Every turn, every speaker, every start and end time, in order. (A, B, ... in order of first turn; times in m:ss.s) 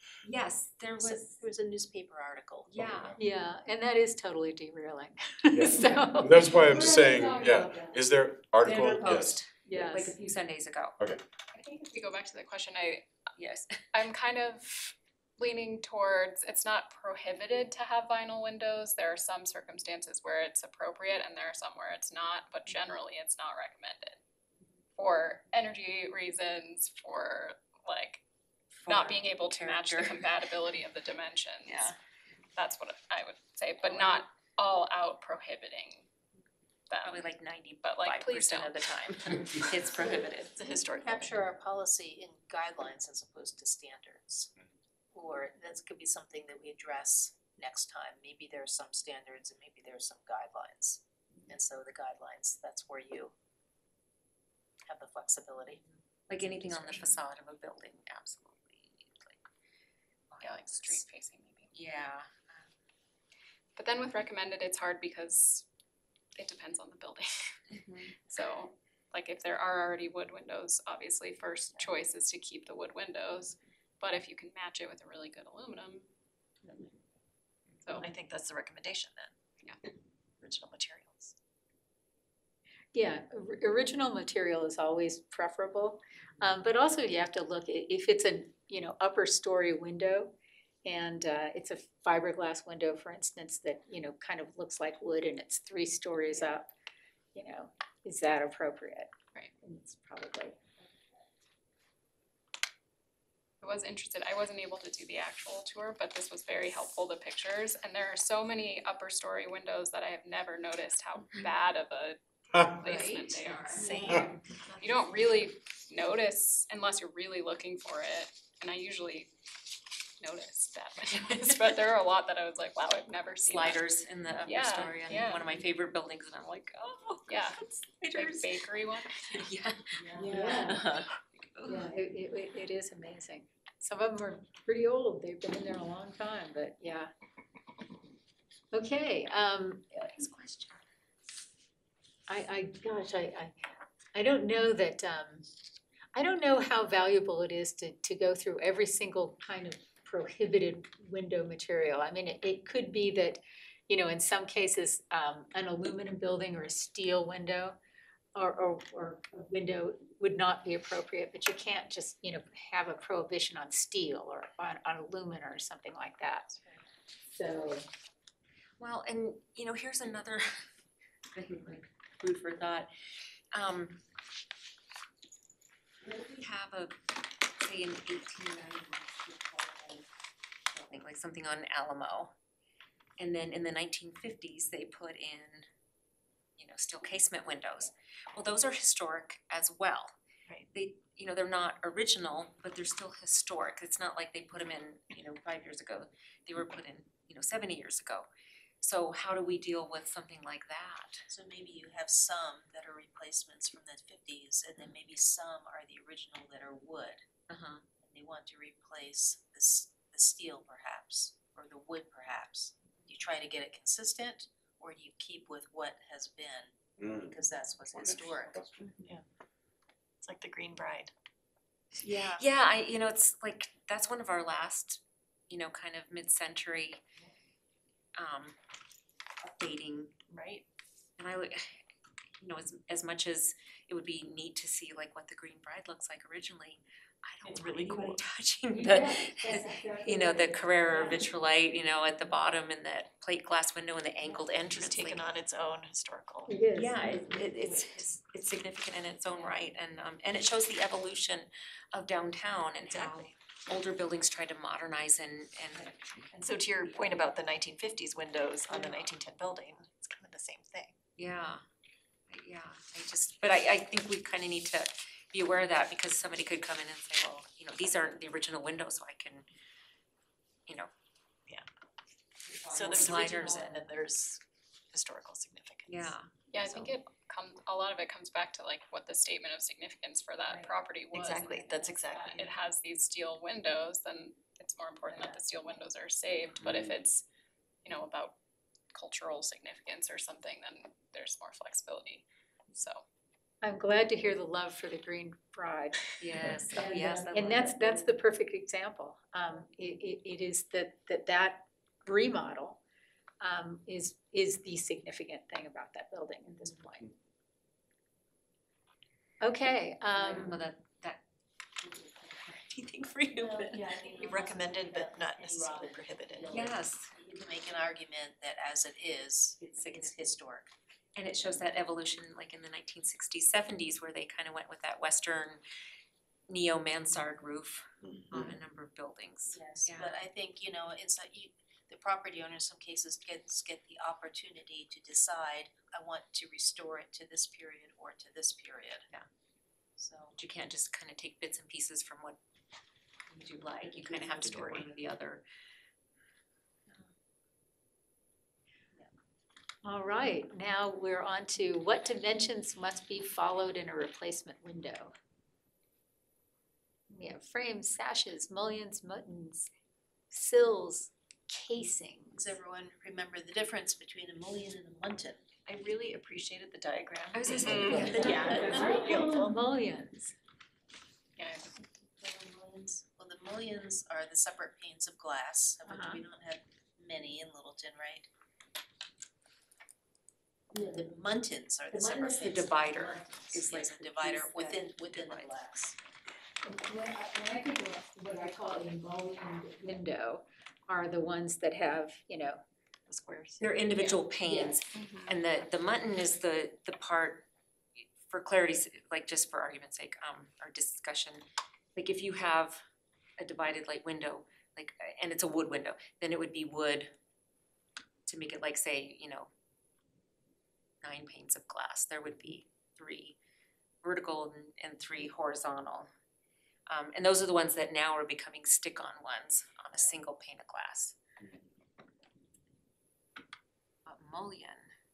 0:00.2-0:01.4 A
0:01.0-0:02.7 B
0:02.7-0:03.2 A
0:02.8-0:03.1 C
0:03.2-0:06.5 D
0:05.5-0:09.4 C
0:05.8-0:07.8 A
0:08.6-0:11.0 A
0:09.6-0:10.2 D
0:11.7-0:13.1 E
0:13.4-0:13.8 A
0:13.9-0:24.2 E
0:25.0-0:28.2 E
0:28.7-0:30.4 A
0:28.9-0:31.9 E
0:31.6-0:31.9 F
0:32.6-0:36.1 E
0:36.9-0:37.2 E
0:37.0-0:40.5 A
0:37.8-0:38.8 E
0:39.8-0:41.4 F
0:41.0-0:44.5 B
0:45.1-0:53.3 B
0:54.8-0:55.8 B
0:56.3-0:59.5 A
1:00.3-1:01.0 A
1:00.4-1:01.7 E
1:01.7-1:02.7 A
1:03.8-1:05.6 E
1:06.4-1:07.6 E
1:07.7-1:08.5 A
1:08.2-1:16.1 E
1:17.9-1:19.3 F
1:20.4-1:21.3 F
1:22.9-1:30.3 D
1:30.8-1:36.7 D
1:37.3-1:40.6 D
1:43.6-1:52.2 E
1:52.5-1:52.8 C
1:52.8-1:54.0 E
1:52.8-1:55.2 F
1:53.8-1:54.3 D
1:54.8-1:59.3 E
2:00.2-2:03.8 E
2:01.1-2:01.7 A
2:03.4-2:11.9 A
2:04.4-2:05.5 E
2:07.3-2:09.2 E
2:10.0-2:10.7 F
2:10.1-2:10.8 D
2:11.6-2:17.1 D
2:18.7-2:20.1 D
2:20.2-2:20.8 A
2:22.3-2:23.5 D
2:24.1-2:25.4 D
2:26.1-2:37.8 D
2:38.3-2:46.5 D
2:47.3-2:47.9 D
2:48.8-2:50.7 A
2:51.3-2:52.9 A
2:53.5-2:54.0 A
2:56.0-2:57.0 A
2:57.6-3:00.0 A
3:00.7-3:02.3 A
3:03.2-3:05.7 A
3:06.6-3:10.2 A
3:10.7-3:18.3 A
3:18.8-3:21.3 A
3:21.3-3:27.2 B
3:27.5-3:27.8 A
3:28.0-3:39.2 B
3:37.0-3:37.4 C
3:38.0-3:38.7 C
3:38.8-3:39.1 F
3:40.2-3:41.1 F
3:42.0-3:42.4 F
3:42.0-3:47.0 A
3:48.1-3:48.6 A
3:49.4-3:50.1 A
3:50.3-3:50.6 F
3:51.2-3:51.8 A
3:52.4-4:05.2 A
3:57.4-3:58.3 F
3:58.7-4:01.3 D
4:04.2-4:08.0 F
4:06.5-4:07.0 D
4:06.7-4:15.9 A
4:12.8-4:13.3 F
4:16.3-4:21.0 F
4:18.7-4:19.1 A
4:21.2-4:21.6 A
4:22.3-4:29.4 A
4:32.5-4:33.8 A
4:32.7-4:34.4 F
4:34.9-4:36.1 F
4:35.9-4:36.9 A
4:36.5-4:47.2 E
4:41.1-4:42.5 F
4:45.1-4:45.4 F
4:46.5-4:46.8 A
4:47.8-4:48.3 E
4:48.9-4:53.0 E
4:53.6-4:56.1 D
4:56.2-4:58.0 A
4:56.7-5:02.8 D
5:03.4-5:07.1 D
5:09.4-5:10.6 D
5:10.1-5:11.2 A
5:11.8-5:14.3 A
5:13.4-5:20.7 B
5:13.7-5:16.7 F
5:16.5-5:17.1 A
5:19.6-5:20.1 A
5:21.2-5:25.6 A
5:26.5-5:30.2 A
5:28.2-5:28.5 C
5:29.5-5:39.1 B
5:40.0-5:40.4 B
5:40.4-5:42.4 A
5:43.3-5:45.4 A
5:43.8-5:44.9 B
5:49.8-5:55.1 D
5:57.1-5:59.7 D
6:00.3-6:02.6 D
6:02.3-6:05.4 B
6:05.6-6:09.6 F
6:07.3-6:08.8 A
6:07.9-6:10.3 D
6:08.7-6:09.1 B
6:11.4-6:11.7 E
6:12.2-6:18.3 B
6:15.8-6:16.2 D
6:20.7-6:21.0 D
6:20.8-6:26.0 B
6:21.9-6:23.4 D
6:22.1-6:25.5 A
6:26.6-6:32.6 D
6:33.1-6:34.2 F
6:33.6-6:37.4 A
6:34.9-6:35.4 F
6:38.2-6:41.4 A
6:41.9-6:42.8 A
6:43.4-6:47.1 A
6:48.2-6:49.5 A
6:51.0-6:53.4 A
6:54.0-6:56.1 A
6:56.9-7:01.2 A
7:04.0-7:04.9 A